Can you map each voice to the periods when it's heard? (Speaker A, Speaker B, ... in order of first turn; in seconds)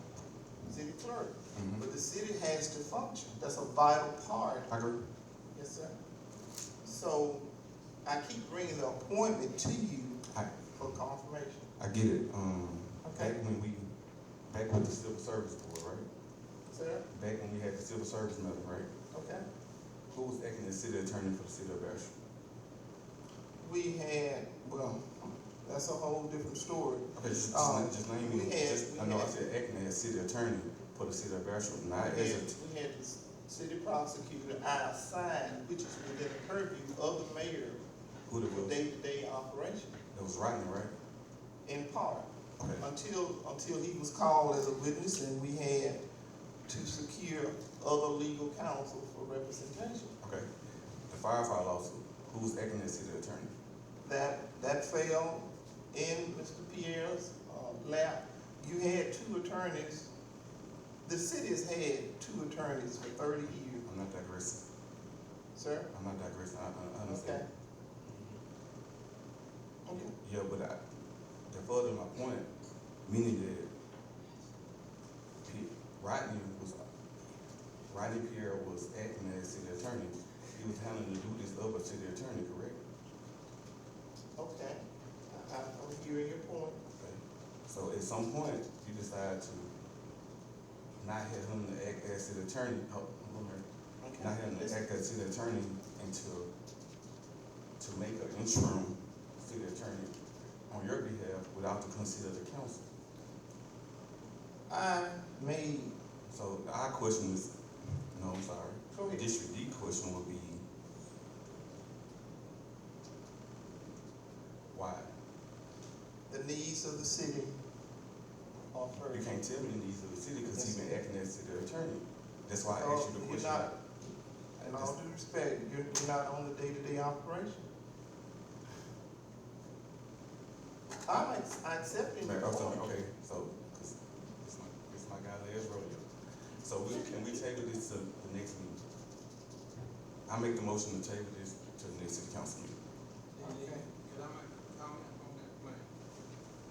Speaker A: 0.6-4.7, 5.5-6.0, 6.8-7.5, 8.0-11.7, 13.0-13.3, 16.7-17.1, 19.1-19.4, 23.6-29.5, 32.0-37.8, 38.5-40.0, 41.6-46.0, 46.7-50.1, 54.0-60.1, 61.0-63.9, 65.5-65.9, 67.1-67.4, 69.8-70.1, 84.4-86.8, 94.0-94.8, 104.7-105.9, 108.9-109.2, 116.3-117.5, 118.7-119.4, 120.5-121.0, 122.7-123.8, 124.6-127.7, 131.0-132.9, 143.4-143.8
Speaker B: 1.5-1.8, 4.7-5.0, 10.3-10.6, 11.8-13.9, 14.5-16.1, 17.1-18.9, 20.1-22.1, 27.1-32.5, 38.3-38.8, 40.1-40.9, 42.6-42.8, 50.2-50.5, 51.1-53.5, 63.9-64.6, 65.9-67.4, 70.1-70.8, 71.5-72.5, 73.0-73.7, 75.4-76.8, 77.9-82.8, 87.0-89.7, 91.0-93.6, 94.2-96.5, 97.8-100.2, 100.7-102.8, 106.3-107.5, 108.1-110.6, 114.7-115.1, 119.1-123.7, 132.2-136.0, 136.6-138.8, 140.3-142.8
Speaker C: 143.3-145.9